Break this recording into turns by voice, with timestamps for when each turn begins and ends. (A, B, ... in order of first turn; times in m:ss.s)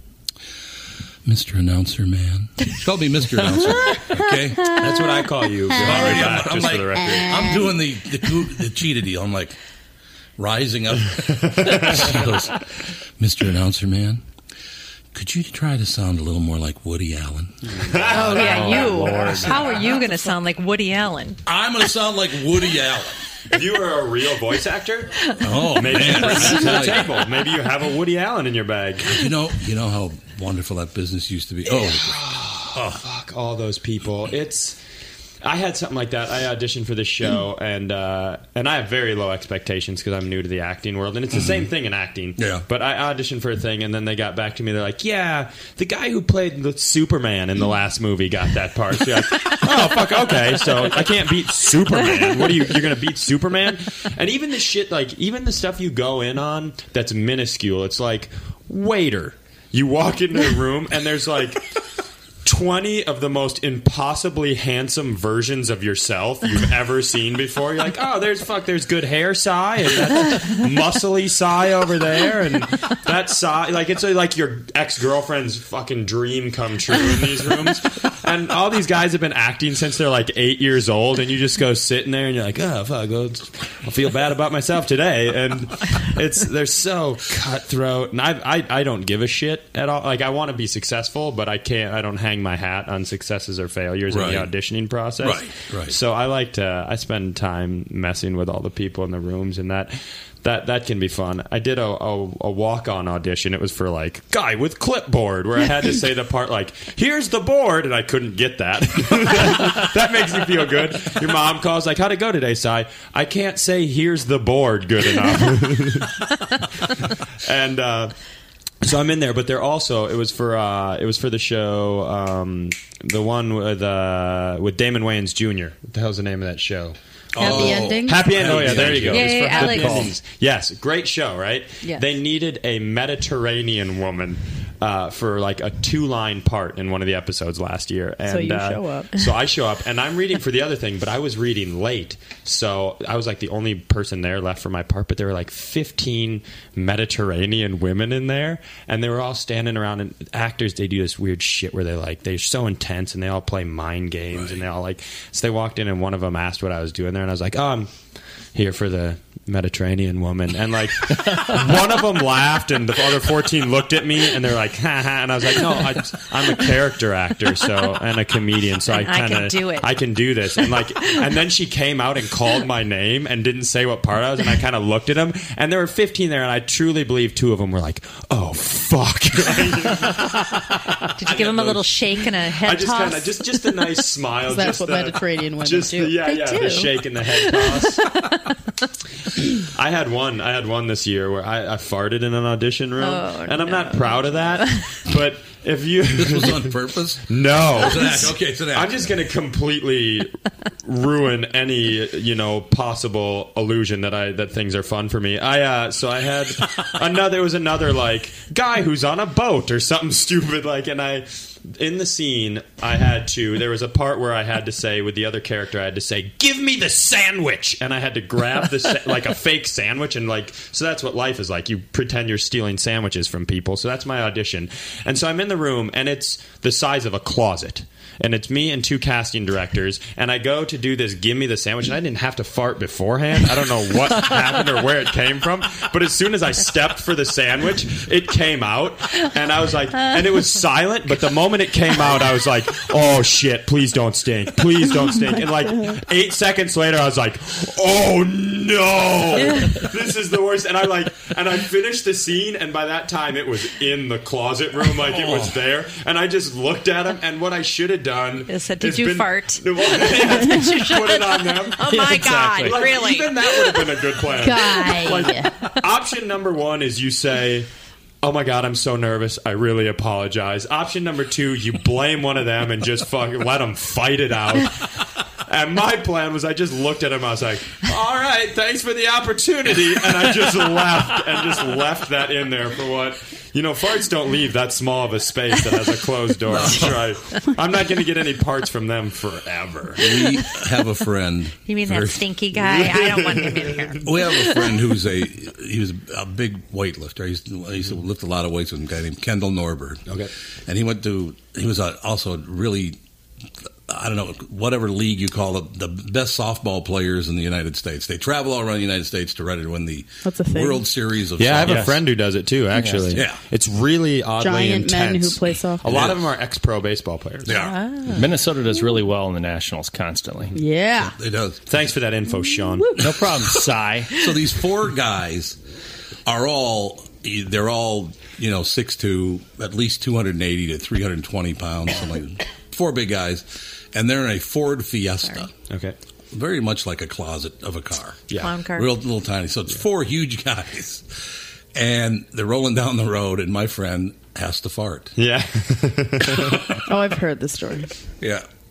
0:01.2-0:09.6 A
0:04.7-0:07.4 B
0:07.0-0:07.7 C
0:10.4-0:12.6 A
0:11.3-0:12.1 B
0:13.2-0:14.2 A
0:15.1-0:18.2 A
0:17.7-0:19.9 B
0:18.1-0:21.4 D
0:18.1-0:19.8 E
0:21.4-0:23.2 A
0:23.5-0:25.2 B
0:25.4-0:27.0 A
0:25.7-0:29.2 B
0:29.0-0:32.2 A
0:31.7-0:34.8 B
0:32.7-0:33.0 A
0:35.4-1:01.7 B
0:42.4-0:42.6 A
1:02.4-1:56.2 B
1:34.1-1:34.5 A
1:35.2-1:36.0 A
1:57.3-1:58.1 B
1:58.8-2:37.9 B
2:07.3-2:09.7 A
2:07.4-2:08.9 C
2:08.6-2:10.1 E
2:09.1-2:10.1 D
2:18.3-2:19.1 C
2:34.3-2:34.6 A
2:38.5-3:01.7 B
2:48.9-2:50.0 D
3:01.2-3:03.5 D
3:01.2-3:01.8 A
3:02.6-3:08.0 B
3:04.4-3:06.3 C
3:06.3-3:08.3 D
3:09.6-3:16.7 B
3:13.0-3:14.8 D
3:16.1-3:19.1 A
3:17.3-3:20.3 B
3:20.8-4:21.9 B
4:15.0-4:15.5 A
4:18.5-4:23.9 D
4:21.8-4:22.8 E
4:22.5-4:27.7 B
4:24.3-4:25.5 C
4:24.6-4:25.2 D
4:28.2-4:34.8 B
4:35.4-4:50.1 B
4:46.5-4:47.1 A
4:50.0-4:52.3 A
4:51.7-4:54.7 D
4:52.6-4:53.9 B
4:54.0-5:00.0 A
5:00.1-5:00.3 B
5:00.7-5:03.0 A
5:03.9-5:12.0 A
5:10.2-5:10.8 C
5:11.4-5:17.6 B
5:11.6-5:12.0 E
5:12.8-5:13.2 E
5:13.1-5:13.4 A
5:14.4-5:16.1 C
5:15.8-5:16.2 A
5:17.4-5:17.8 A
5:17.5-5:18.2 D
5:18.1-5:20.6 E
5:20.5-5:21.1 C
5:21.0-5:21.8 A
5:21.7-5:22.9 B
5:23.0-5:24.2 E
5:23.0-5:25.6 A
5:26.2-5:35.5 A
5:35.7-5:36.0 B
5:36.3-5:38.2 A
5:38.4-5:38.9 D
5:38.7-5:45.1 A
5:45.2-5:46.6 B
5:46.8-5:47.9 C
5:48.2-5:48.4 A